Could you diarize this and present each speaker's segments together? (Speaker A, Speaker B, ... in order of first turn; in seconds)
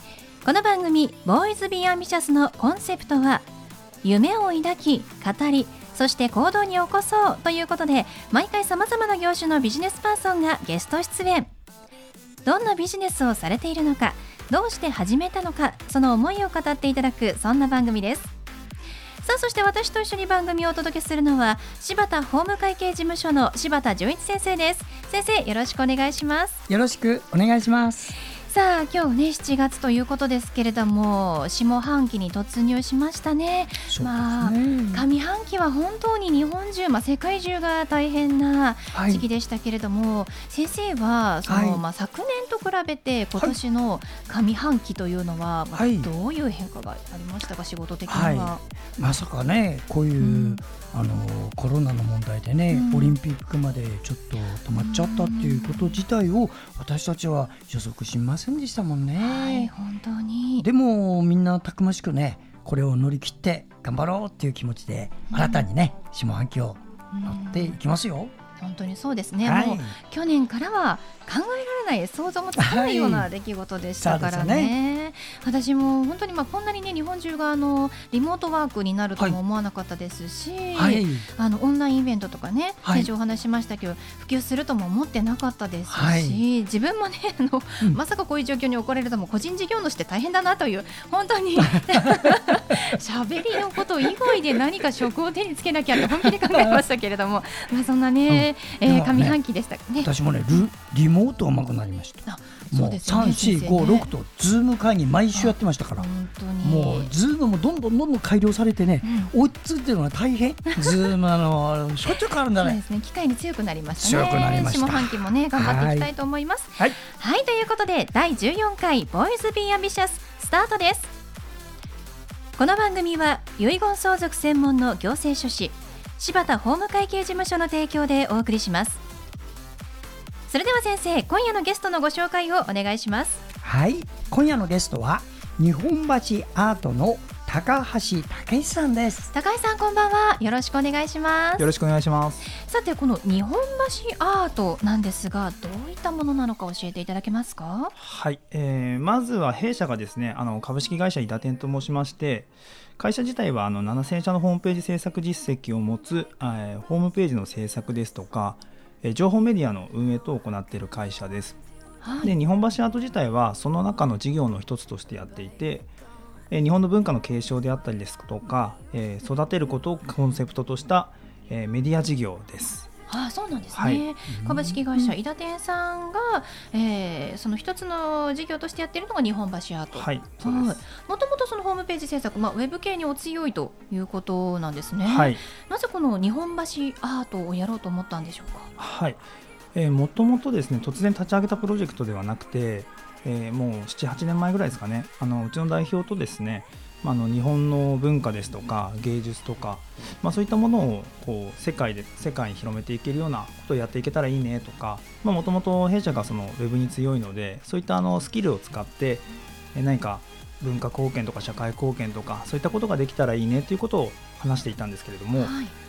Speaker A: 0.4-3.5, 4.0-11.5, 12.4-18.3, 19.2-26.6, 28.4-48.6, 50.2-50.6, 52.7-53.2, 54.8-56.0, 59.2-60.7, 65.3-65.7, 67.1-67.8, 68.6-100.7, 102.2-104.1, 105.3-107.1, 109.0-109.3, 110.7-111.0, 112.5-121.1, 122.6-129.0, 130.5-133.4, 139.3-141.7, 142.5-147.9, 162.0-162.3, 173.1-188.7, 215.4-215.8
Speaker B: 26.7-28.1, 33.9-35.1, 38.9-39.2, 41.5-41.8, 45.7-46.1, 48.1-59.7, 60.6-68.3, 69.4-70.0, 72.6-73.3, 74.0-74.7, 80.8-81.3, 85.9-86.4, 91.6-92.7, 98.3-99.4, 100.0-106.1, 106.6-112.8, 114.0-116.1, 133.6-139.3, 174.3-175.1
Speaker C: 141.6-142.5, 148.0-161.6, 162.2-165.9, 166.5-172.9, 173.8-174.1, 179.9-180.8, 185.0-185.4, 188.8-215.5